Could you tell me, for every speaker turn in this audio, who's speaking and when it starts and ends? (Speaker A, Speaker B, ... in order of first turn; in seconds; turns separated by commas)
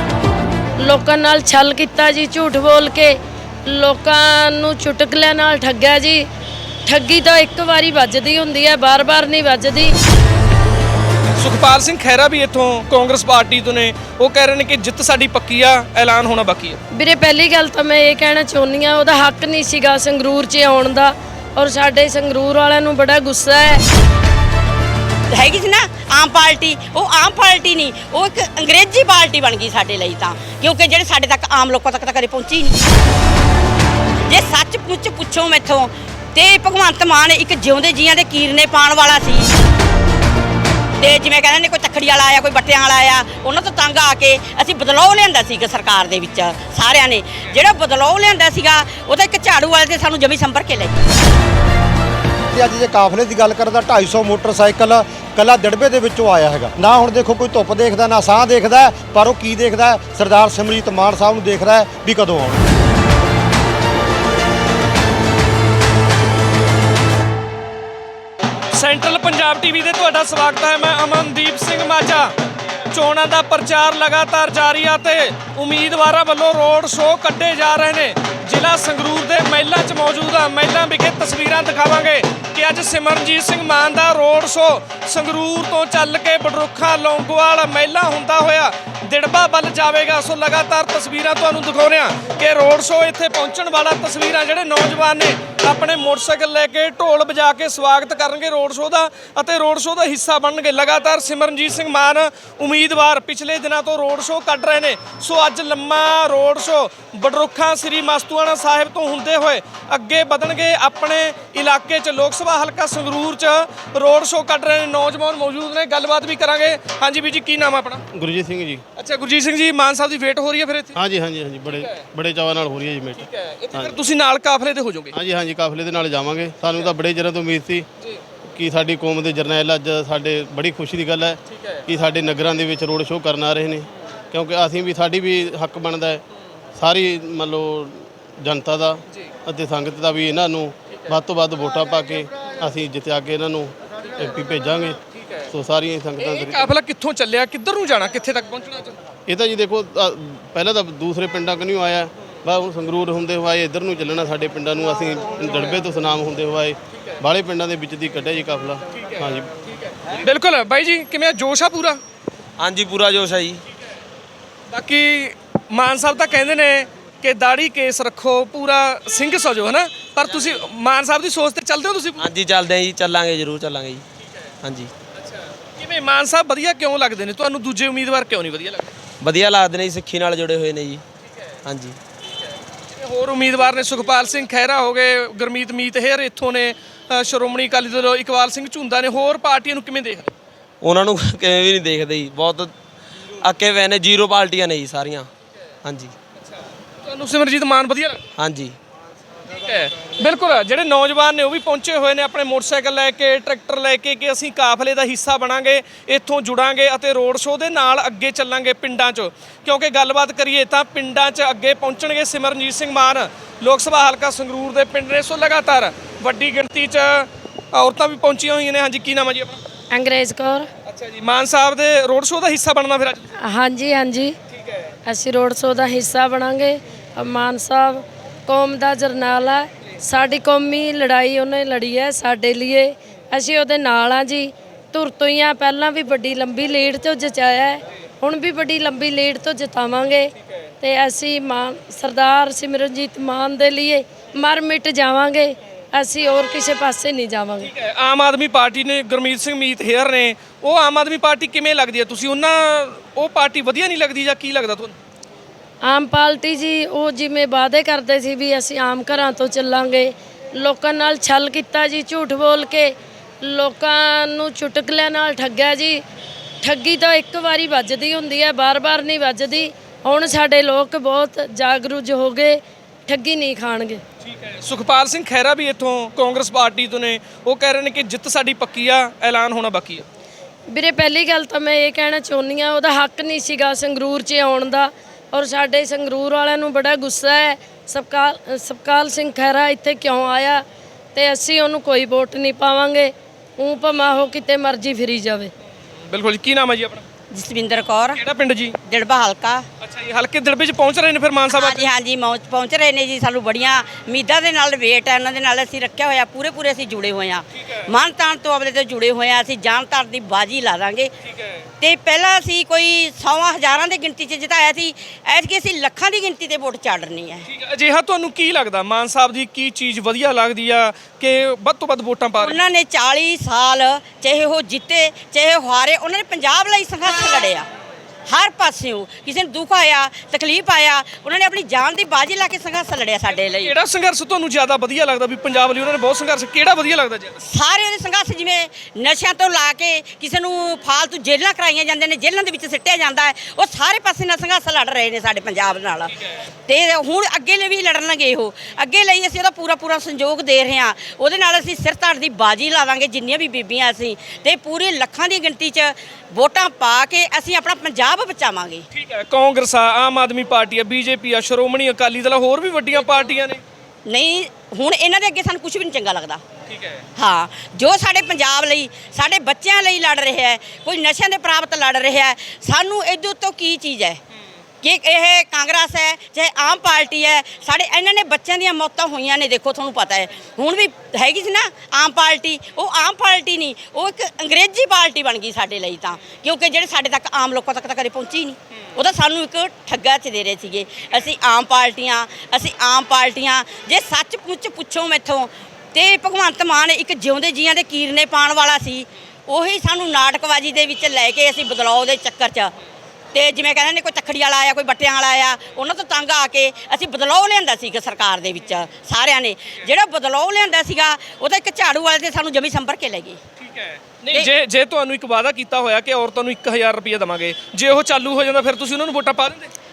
Speaker A: 0.8-6.3, Speaker A: 6.9-9.9, Speaker B: 11.3-16.8, Speaker A: 16.9-23.8, Speaker C: 25.3-32.8, Speaker C: 34.3-39.5, Speaker C: 41.0-51.0, Speaker D: 52.5-62.6, Speaker B: 68.7-72.3, Speaker B: 72.9-118.0, Speaker E: 118.1-118.8, Speaker B: 119.0-121.0, Speaker E: 121.0-124.0, Speaker B: 121.7-122.0, Speaker B: 123.3-125.2, Speaker E: 125.1-127.9, Speaker E: 128.5-136.2, Speaker E: 136.8-145.0, Speaker E: 145.5-146.7, Speaker B: 146.2-149.0, Speaker E: 149.3-159.5, Speaker B: 160.2-162.0, Speaker F: 162.6-163.6, Speaker B: 164.7-172.2, Speaker F: 170.3-170.6, Speaker F: 172.2-174.1, Speaker F: 174.6-174.9, Speaker B: 175.8-178.9, Speaker F: 179.2-181.0, Speaker F: 181.6-182.0, Speaker B: 183.0-190.3, Speaker F: 190.8-192.7, Speaker F: 193.4-195.3, Speaker F: 195.8-196.1, Speaker B: 197.1-198.2, Speaker F: 198.4-198.8, Speaker B: 199.6-219.6, Speaker A: 219.9-220.7, Speaker B: 220.9-223.3, Speaker A: 223.4-224.3, Speaker A: 225.1-247.7, Speaker B: 247.7-254.9, Speaker A: 255.8-266.0, Speaker A: 266.6-274.0, Speaker B: 274.4-280.1, Speaker A: 280.7-295.5, Speaker B: 296.1-297.0, Speaker C: 297.3-298.2, Speaker B: 298.2-298.8, Speaker C: 298.8-299.7, Speaker B: 299.8-301.9, Speaker C: 301.5-311.1, Speaker B: 311.3-311.5, Speaker C: 311.8-317.4, Speaker B: 317.5-322.6, Speaker C: 322.4-327.7, Speaker C: 328.3-333.7, Speaker B: 333.4-337.4, Speaker C: 337.4-346.1, Speaker C: 346.7-358.9, Speaker B: 358.9-363.6, Speaker C: 364.1-366.4, Speaker B: 366.7-367.0, Speaker C: 367.2-374.2, Speaker C: 374.8-402.8, Speaker C: 403.3-413.4, Speaker B: 413.6-419.7